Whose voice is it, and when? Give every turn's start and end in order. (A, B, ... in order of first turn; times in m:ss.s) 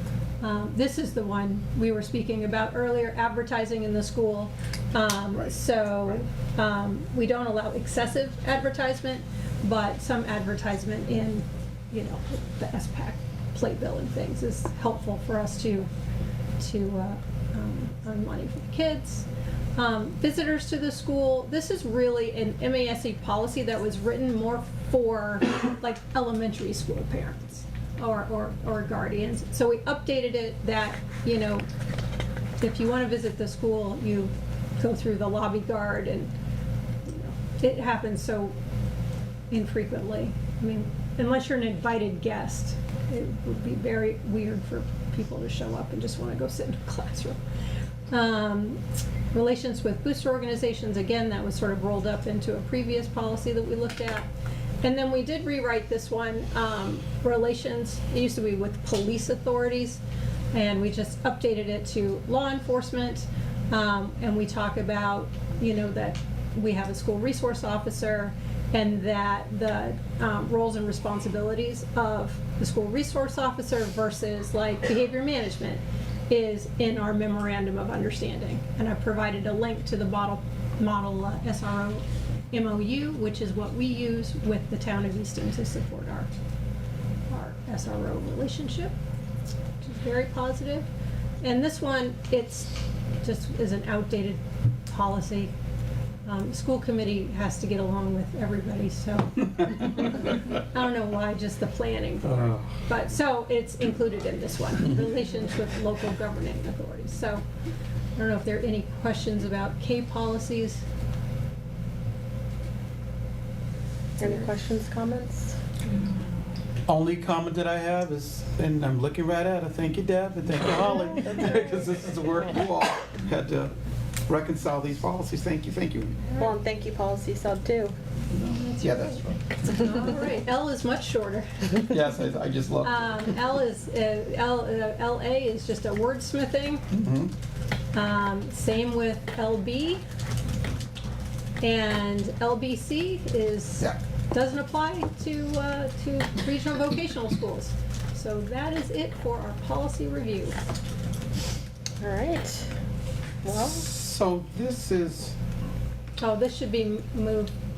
0:00.4-0:15.9 A
0:16.6-0:31.7 A
0:32.6-0:36.3 A
0:37.0-0:38.5 A
0:39.5-0:47.4 A
0:48.1-0:48.8 A
0:49.3-0:54.3 A
0:54.8-1:00.0 A
1:00.5-1:26.3 A
1:27.3-1:28.9 A
1:29.8-1:30.9 A
1:31.4-1:35.5 A
1:36.2-1:47.4 A
1:42.2-1:42.7 B
1:44.8-1:45.1 B
1:48.2-1:50.8 A
1:54.2-1:55.6 C
1:56.9-2:03.7 B
2:01.2-2:02.0 C
2:04.3-2:06.2 B
2:06.4-2:08.0 C
2:08.4-2:11.8 A
2:08.7-2:09.5 B
2:11.8-2:13.4 B
2:12.8-2:16.8 A
2:16.9-2:17.3 B
2:17.9-2:20.0 A
2:21.6-2:30.6 A
2:32.0-2:32.7 C
2:33.4-2:33.9 C
2:33.5-2:35.4 B
2:36.2-2:37.5 A